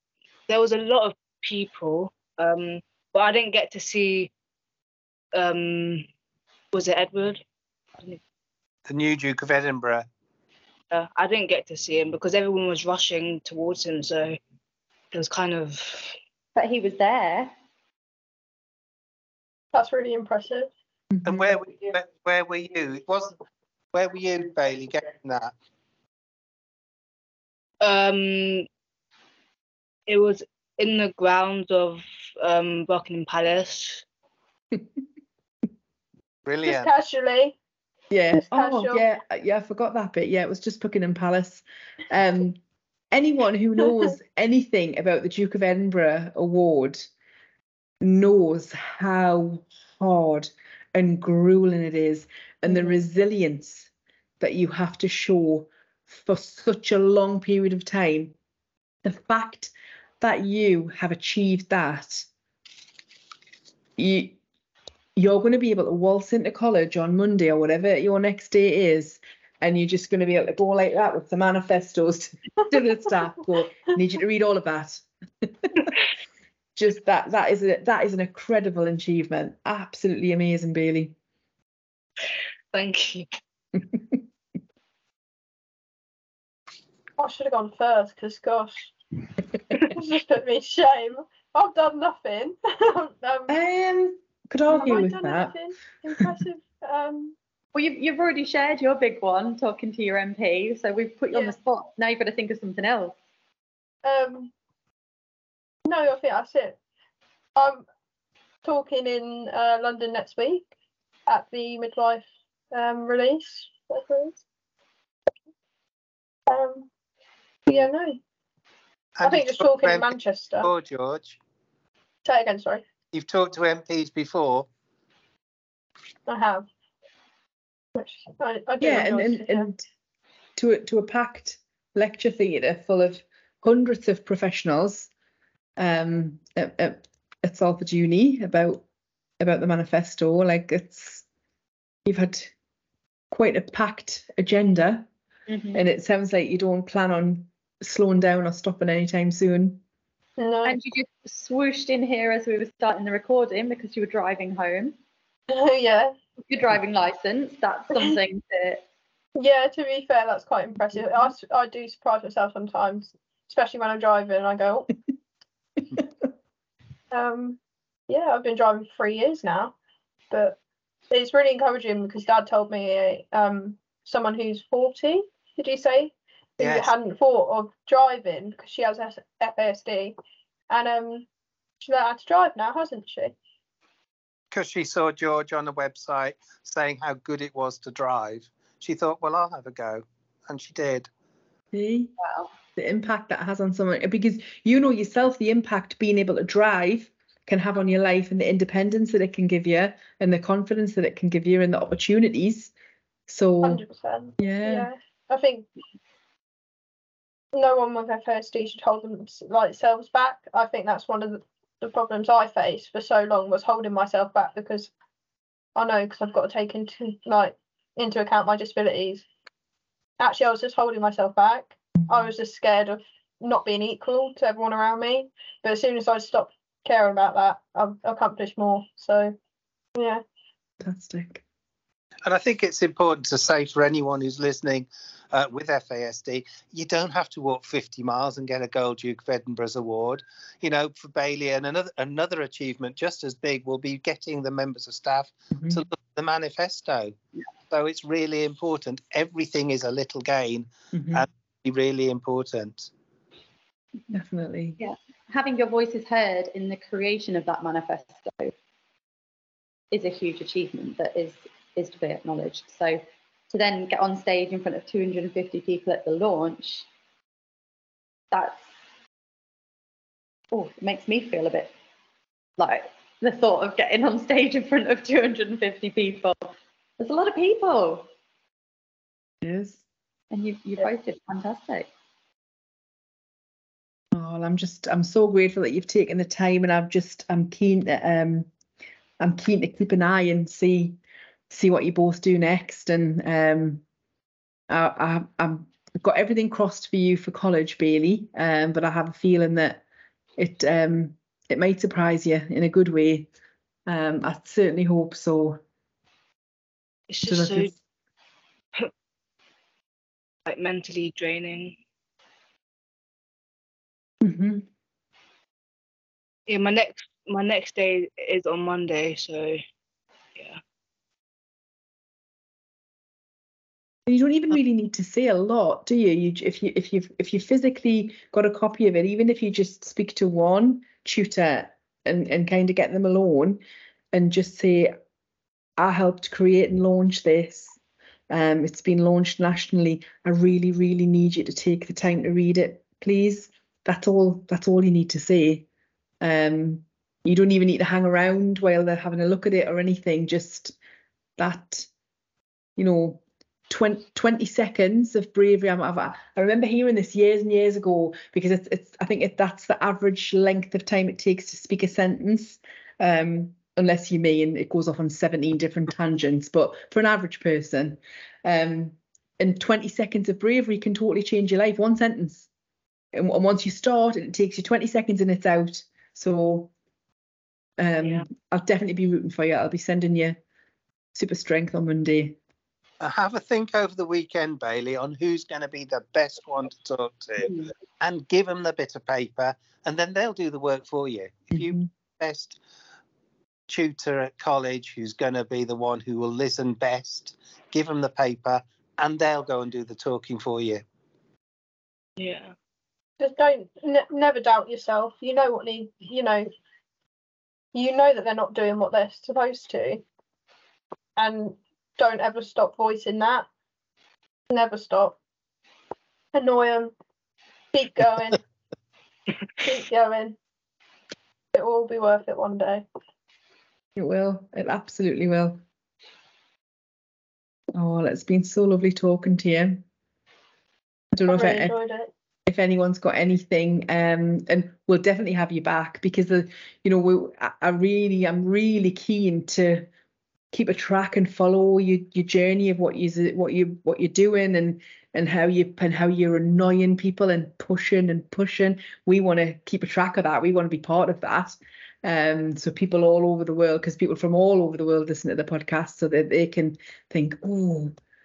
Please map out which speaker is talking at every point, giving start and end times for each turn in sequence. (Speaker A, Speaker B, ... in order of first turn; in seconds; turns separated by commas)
Speaker A: 0.5-4.3, Speaker A: 5.3-6.1, Speaker A: 6.7-7.4, Speaker B: 8.9-10.1, Speaker A: 10.9-14.4, Speaker A: 15.1-16.2, Speaker C: 16.6-17.5, Speaker D: 19.7-20.7, Speaker E: 21.1-21.5, Speaker B: 21.2-23.4, Speaker B: 23.9-25.5, Speaker A: 27.8-28.7, Speaker A: 30.1-34.0, Speaker B: 36.5-36.9, Speaker D: 36.6-37.6, Speaker E: 38.1-42.6, Speaker D: 38.4-39.0, Speaker E: 43.1-47.1, Speaker E: 48.0-53.9, Speaker E: 54.4-58.4, Speaker E: 59.0-62.3, Speaker E: 64.0-64.4, Speaker E: 65.2-75.9, Speaker E: 76.8-81.2, Speaker A: 82.7-83.3, Speaker E: 83.8-84.2, Speaker D: 87.2-88.9, Speaker D: 89.7-93.5, Speaker E: 93.5-95.5, Speaker D: 94.7-97.4, Speaker C: 97.7-103.2, Speaker D: 104.0-104.5, Speaker D: 105.9-106.8, Speaker D: 107.6-107.8, Speaker D: 108.6-110.7, Speaker D: 111.3-114.4, Speaker D: 116.5-116.9, Speaker D: 117.7-118.2, Speaker B: 119.2-121.4, Speaker D: 119.2-120.7, Speaker D: 122.2-122.8, Speaker B: 123.1-124.7, Speaker D: 126.3-126.6, Speaker D: 128.0-129.7, Speaker E: 128.8-129.8, Speaker E: 130.6-135.1, Speaker E: 135.8-138.8, Speaker E: 139.4-141.2, Speaker E: 142.1-142.5, Speaker E: 143.3-145.1, Speaker C: 145.5-145.8, Speaker E: 145.7-149.8, Speaker D: 150.4-150.8, Speaker C: 150.6-155.0, Speaker D: 155.5-156.2, Speaker C: 156.5-158.8, Speaker D: 159.4-164.9, Speaker D: 167.1-169.8, Speaker D: 170.3-170.6, Speaker D: 171.1-180.2, Speaker B: 176.6-176.9, Speaker D: 180.7-181.3, Speaker D: 181.8-183.3, Speaker B: 184.5-191.1, Speaker E: 191.7-192.1, Speaker C: 192.2-192.5, Speaker E: 192.8-202.7, Speaker E: 203.3-203.8, Speaker D: 203.6-205.7, Speaker E: 204.4-204.9, Speaker D: 207.5-214.9, Speaker D: 215.8-219.3, Speaker D: 220.2-229.4, Speaker E: 222.0-222.3, Speaker D: 230.0-230.2, Speaker E: 230.8-231.4, Speaker B: 232.2-247.2, Speaker E: 245.6-245.8, Speaker B: 247.7-252.9, Speaker E: 250.9-251.3, Speaker E: 254.1-254.8, Speaker C: 254.8-258.5, Speaker C: 259.9-266.9, Speaker C: 268.3-268.7, Speaker C: 270.5-271.7, Speaker C: 272.6-278.1, Speaker E: 279.4-279.8, Speaker C: 280.3-281.9, Speaker E: 284.1-288.5, Speaker E: 289.2-291.0, Speaker E: 291.5-293.8, Speaker E: 294.7-299.8, Speaker E: 300.4-303.3, Speaker E: 303.9-305.6, Speaker A: 307.1-307.7, Speaker E: 307.2-307.8, Speaker A: 310.5-311.8, Speaker E: 314.2-314.7, Speaker A: 316.5-319.6, Speaker E: 324.1-333.6, Speaker E: 334.1-334.9, Speaker E: 335.8-337.8, Speaker E: 338.3-345.7, Speaker E: 346.2-350.8, Speaker E: 351.4-351.9, Speaker E: 352.8-372.5, Speaker E: 373.1-376.7, Speaker E: 377.8-380.4, Speaker E: 381.1-382.4, Speaker B: 383.0-392.6, Speaker E: 391.5-391.9, Speaker B: 393.7-400.8, Speaker A: 402.2-402.5, Speaker D: 403.2-406.5, Speaker D: 407.7-410.0, Speaker D: 411.2-413.5, Speaker D: 414.5-415.2, Speaker D: 416.3-416.9, Speaker D: 417.7-418.4, Speaker D: 419.6-420.4, Speaker D: 421.5-422.9, Speaker E: 424.0-425.6, Speaker E: 427.7-429.8, Speaker E: 431.1-431.7, Speaker D: 431.3-432.1, Speaker E: 432.5-439.9, Speaker E: 440.5-457.9